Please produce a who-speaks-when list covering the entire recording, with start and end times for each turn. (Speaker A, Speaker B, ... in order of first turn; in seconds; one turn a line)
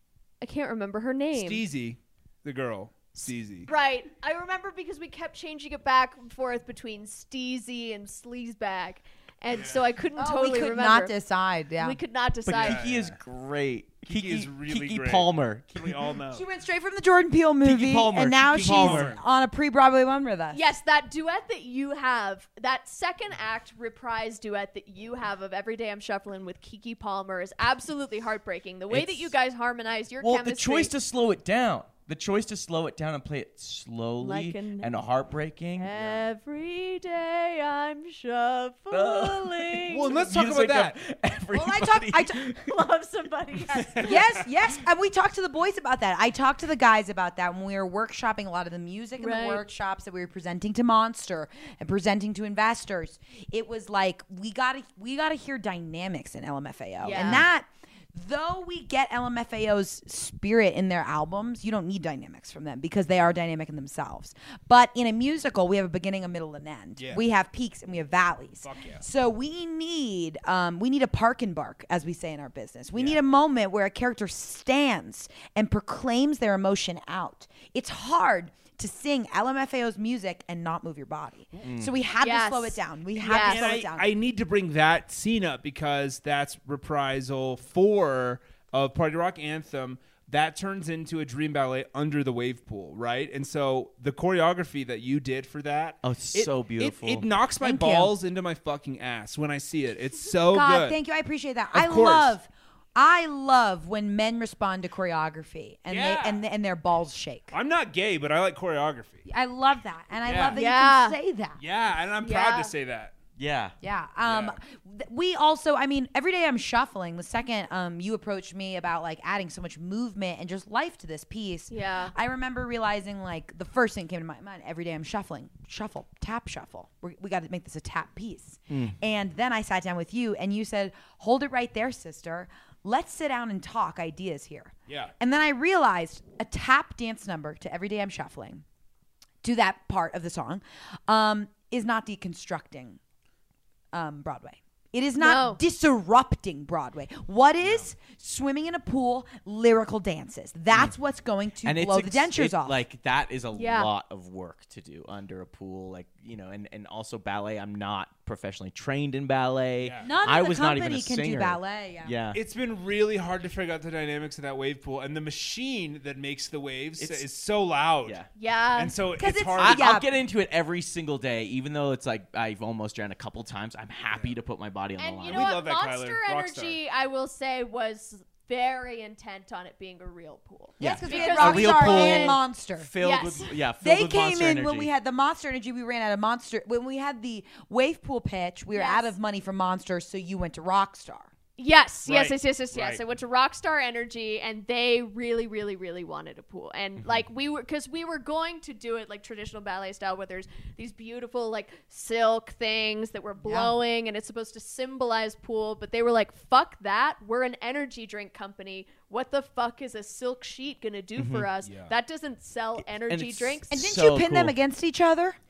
Speaker A: 0.4-1.6
Speaker B: 1.3-3.7
Speaker A: 3.1-11.1
Speaker B: 9.5-9.8
Speaker C: 10.2-12.0
Speaker A: 11.8-12.8
Speaker D: 12.4-16.0
Speaker B: 12.5-13.2
Speaker B: 14.1-16.4
Speaker C: 16.3-20.6
Speaker D: 17.6-19.1
Speaker B: 18.5-19.2
Speaker A: 20.5-30.9
Speaker D: 28.9-29.3
Speaker D: 30.2-36.1
Speaker A: 34.2-34.9
Speaker A: 35.8-40.2
Speaker D: 38.9-42.7
Speaker B: 39.9-41.0
Speaker C: 41.5-42.5
Speaker A: 42.6-44.0
Speaker B: 43.7-44.4
Speaker C: 44.0-84.1
Speaker A: 49.2-49.6
Speaker A: 57.0-57.4
Speaker B: 68.6-69.0
Speaker B: 72.9-73.2
Speaker D: 81.6-81.9
Speaker A: 82.2-83.6
Speaker B: 83.3-101.0
Speaker D: 96.0-97.3
Speaker C: 97.6-98.1
Speaker C: 100.5-107.5
Speaker B: 101.7-102.3
Speaker B: 105.9-106.4
Speaker B: 107.5-109.2
Speaker C: 109.3-111.6
Speaker B: 110.2-110.6
Speaker A: 110.5-111.2
Speaker B: 111.6-113.1
Speaker A: 112.2-112.7
Speaker D: 113.3-113.7
Speaker C: 113.8-138.6
Speaker B: 114.2-114.6
Speaker A: 121.7-122.1
Speaker B: 134.9-135.1
Speaker C: 139.4-143.0
Speaker C: 143.9-152.8
Speaker A: 145.2-145.6
Speaker D: 151.6-162.4
Speaker A: 153.5-153.9
Speaker B: 159.8-160.1
Speaker C: 160.0-162.1
Speaker B: 162.3-168.2
Speaker D: 167.0-167.2
Speaker A: 168.3-168.9
Speaker B: 168.7-170.0
Speaker C: 169.2-170.1
Speaker D: 169.6-175.6
Speaker A: 175.0-182.4
Speaker B: 175.3-176.8
Speaker C: 180.8-182.9
Speaker D: 180.8-184.9
Speaker A: 183.0-183.5
Speaker C: 183.8-191.3
Speaker A: 188.7-189.1
Speaker A: 191.6-213.8
Speaker B: 192.1-193.0
Speaker C: 203.4-203.7
Speaker D: 211.2-211.5
Speaker B: 211.6-211.9
Speaker D: 213.1-214.5
Speaker C: 213.7-215.4